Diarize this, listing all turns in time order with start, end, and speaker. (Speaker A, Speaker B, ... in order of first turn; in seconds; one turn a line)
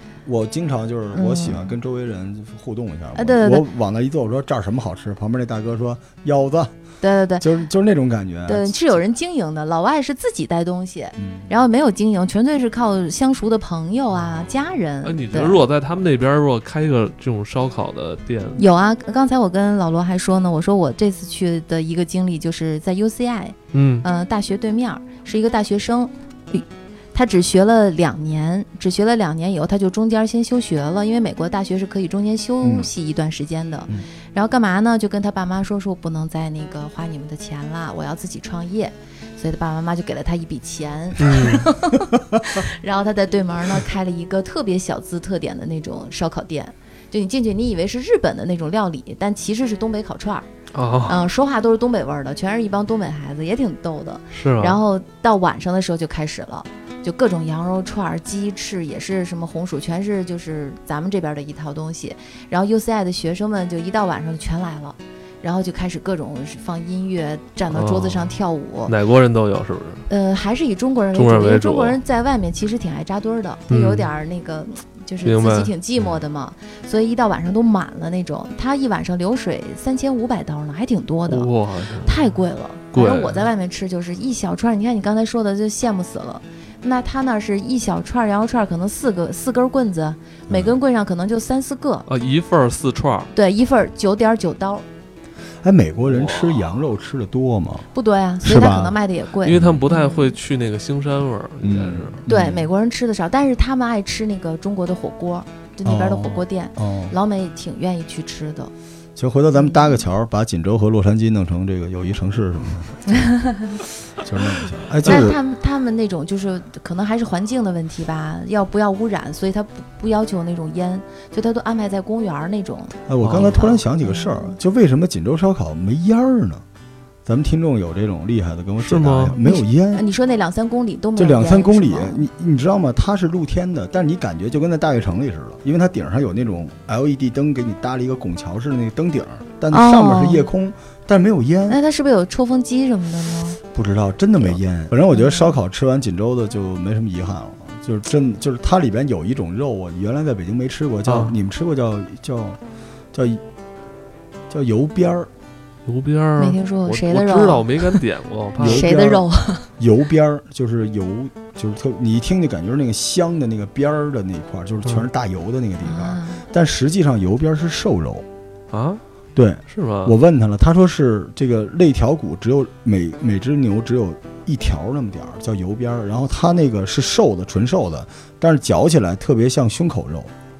Speaker A: 0.2-6.7
Speaker B: 1.1-1.6
Speaker B: 3.1-3.6
Speaker B: 7.0-7.5
Speaker A: 7.4-9.0
Speaker B: 8.4-15.6
Speaker A: 11.2-11.5
Speaker C: 15.0-18.6
Speaker B: 18.6-50.5
Speaker C: 23.7-24.1
Speaker A: 32.6-32.9
Speaker C: 41.2-41.7
Speaker A: 42.1-42.6
Speaker C: 50.7-51.2
Speaker B: 51.0-68.9
Speaker C: 54.3-54.8
Speaker C: 67.7-70.1
Speaker B: 70.1-81.5
Speaker C: 71.1-72.0
Speaker C: 73.7-74.1
Speaker C: 75.2-75.7
Speaker C: 81.3-82.3
Speaker B: 82.0-92.1
Speaker C: 82.9-83.5
Speaker A: 90.5-90.7
Speaker C: 92.1-93.3
Speaker B: 93.3-94.8
Speaker A: 95.6-97.9
Speaker C: 96.0-96.8
Speaker B: 97.9-100.3
Speaker A: 98.4-99.0
Speaker C: 99.4-102.2
Speaker A: 101.6-102.7
Speaker B: 102.2-108.7
Speaker A: 105.8-107.1
Speaker A: 109.2-113.3
Speaker B: 109.5-110.0
Speaker B: 113.1-113.7
Speaker A: 114.1-115.4
Speaker B: 115.0-124.5
Speaker A: 123.1-126.6
Speaker C: 123.2-123.8
Speaker A: 127.2-130.0
Speaker C: 128.8-129.4
Speaker B: 129.4-132.2
Speaker A: 131.2-141.8
Speaker B: 139.7-140.4
Speaker B: 141.7-143.6
Speaker A: 143.7-152.6
Speaker B: 145.1-145.6
Speaker C: 151.1-151.4
Speaker A: 153.1-153.4
Speaker A: 154.5-155.3
Speaker C: 155.8-158.9
Speaker B: 156.4-158.0
Speaker A: 158.6-159.2
Speaker B: 158.6-159.7
Speaker A: 159.8-168.2
Speaker B: 165.8-166.4
Speaker C: 168.7-169.0
Speaker A: 169.3-180.3
Speaker C: 169.7-170.1